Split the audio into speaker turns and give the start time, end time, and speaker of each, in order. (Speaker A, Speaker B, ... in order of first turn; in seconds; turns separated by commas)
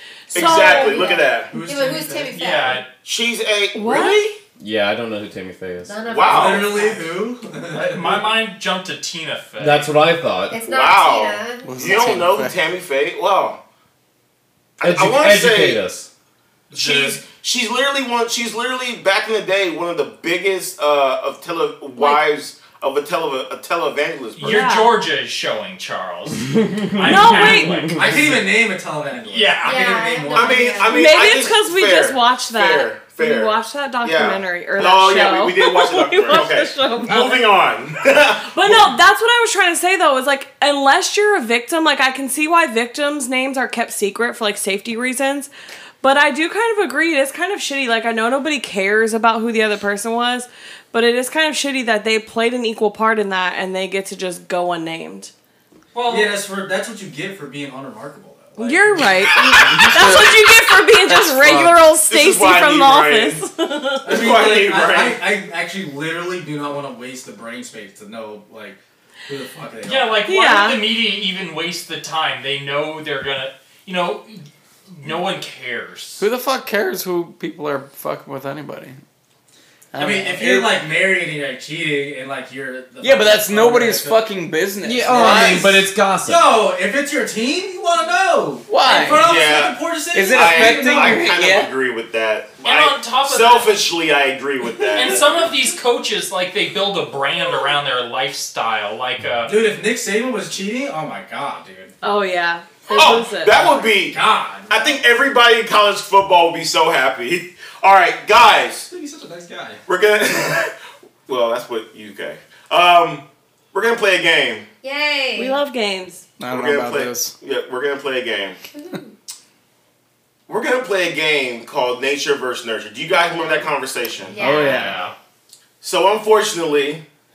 Speaker A: 0.3-1.2, Speaker B: 0.3-1.5, Speaker C: 0.4-2.8, Speaker D: 1.5-2.4, Speaker E: 2.3-2.9, Speaker B: 3.0-4.4, Speaker A: 3.7-4.2, Speaker F: 4.6-6.0, Speaker C: 5.8-7.1, Speaker B: 6.0-6.8, Speaker D: 6.2-8.2, Speaker E: 7.8-9.9, Speaker F: 9.6-10.6, Speaker C: 10.5-12.3, Speaker B: 10.6-13.6, Speaker G: 11.6-12.6, Speaker B: 14.8-15.8, Speaker F: 14.8-16.1, Speaker E: 16.7-17.2, Speaker B: 16.7-24.7, Speaker A: 22.0-22.2, Speaker E: 24.4-28.4, Speaker A: 24.4-24.9, Speaker F: 26.6-28.4, Speaker A: 27.0-27.9, Speaker D: 27.9-30.8, Speaker E: 29.2-30.0, Speaker C: 29.6-31.1, Speaker B: 30.3-39.0, Speaker A: 30.9-37.5, Speaker A: 38.4-55.3, Speaker E: 55.9-56.4, Speaker D: 56.1-59.1, Speaker A: 58.6-64.2, Speaker B: 59.6-59.8, Speaker F: 59.6-60.3, Speaker G: 59.6-60.4, Speaker G: 61.1-61.7, Speaker B: 61.4-63.5, Speaker D: 64.0-70.2, Speaker B: 64.1-65.3, Speaker E: 69.8-76.2, Speaker A: 70.3-70.8, Speaker G: 76.2-79.0, Speaker G: 79.9-80.7, Speaker D: 80.0-84.2, Speaker G: 83.0-85.7, Speaker F: 84.8-86.5, Speaker D: 85.0-91.3, Speaker G: 88.7-89.3, Speaker B: 89.1-95.5, Speaker G: 90.1-91.7, Speaker E: 92.6-93.8, Speaker E: 94.9-99.5, Speaker D: 99.5-102.0, Speaker A: 102.0-103.7, Speaker B: 102.9-108.9, Speaker D: 103.0-105.0, Speaker D: 108.9-109.8, Speaker B: 109.9-110.7, Speaker B: 111.3-114.7, Speaker C: 114.8-115.6, Speaker A: 115.4-116.3, Speaker G: 116.4-117.3, Speaker B: 116.5-118.6, Speaker C: 118.7-119.1, Speaker B: 120.5-124.4, Speaker C: 124.3-125.0, Speaker E: 124.4-125.1, Speaker F: 124.6-125.0, Speaker B: 125.8-127.0